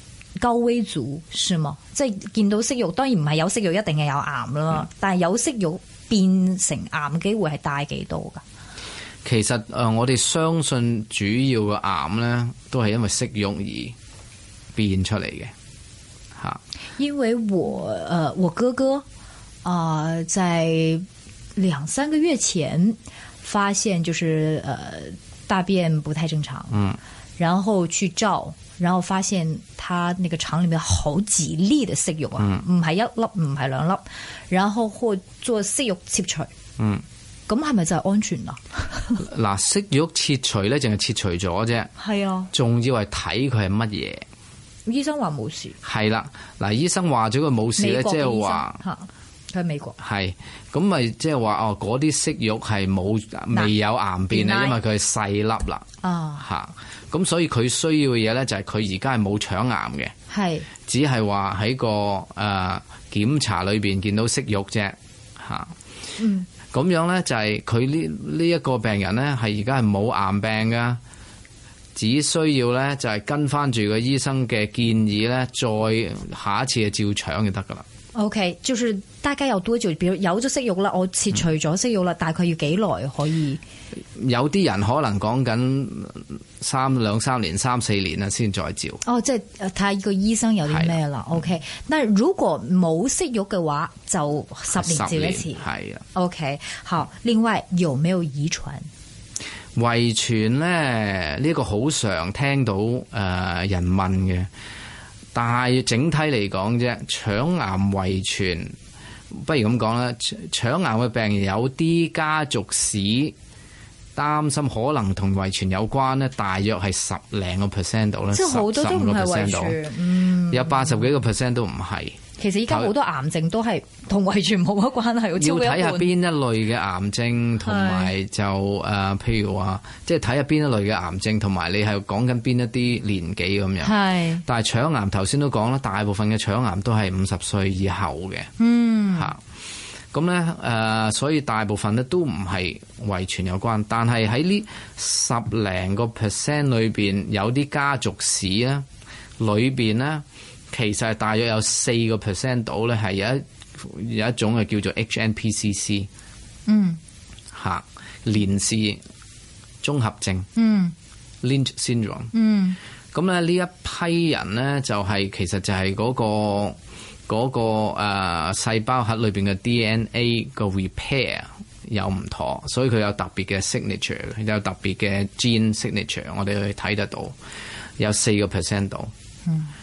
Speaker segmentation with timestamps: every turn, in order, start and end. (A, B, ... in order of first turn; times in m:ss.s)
0:00.4-0:08.4 A
0:09.2-0:14.0 B
0:14.8-0:15.5 B
0:17.0-0:19.0 A
0:19.6-0:26.8 A
0:26.7-0:27.0 B
0:27.4-0:36.5 A
0:32.4-0:32.6 B
0:36.8-0:37.0 B
0:37.5-0:39.2 A
0:39.2-0:41.9 B
0:42.0-0:42.5 A
0:42.5-0:44.2 B
0:44.9-0:45.8 A
0:45.8-0:48.8 B
0:47.8-0:50.0 A
0:50.0-0:55.9 B
0:54.3-0:54.8 A
0:56.0-0:56.4 A
0:56.4-1:00.1 B
1:00.3-1:00.7 A
1:00.8-1:05.7 B
1:06.2-1:06.5 A
1:06.7-1:11.0 B
1:12.0-1:17.8 B
1:18.2-1:23.6 A
1:24.2-1:29.0 B
1:29.0-1:38.9 A
1:30.7-1:31.0 B
1:34.7-1:36.0 B
1:39.8-1:44.5 B
1:45.3-1:48.8 B
1:49.3-1:53.4 B
1:54.2-1:59.8 B
1:58.3-2:01.1 A
2:00.5-2:02.2 B
2:02.4-2:06.1 A
2:05.4-2:18.5 B
2:07.6-2:08.1 A
2:13.8-2:14.4 A
2:18.6-2:19.4 A
2:20.1-2:28.9 B
2:29.4-2:36.1 B
2:36.7-2:37.0 A
2:37.5-2:39.0 B
2:39.8-2:40.5 B
2:40.6-2:40.9 A
2:41.4-2:42.3 B
2:42.3-2:42.8 A
2:43.1-2:57.4 B
2:58.0-2:59.1 B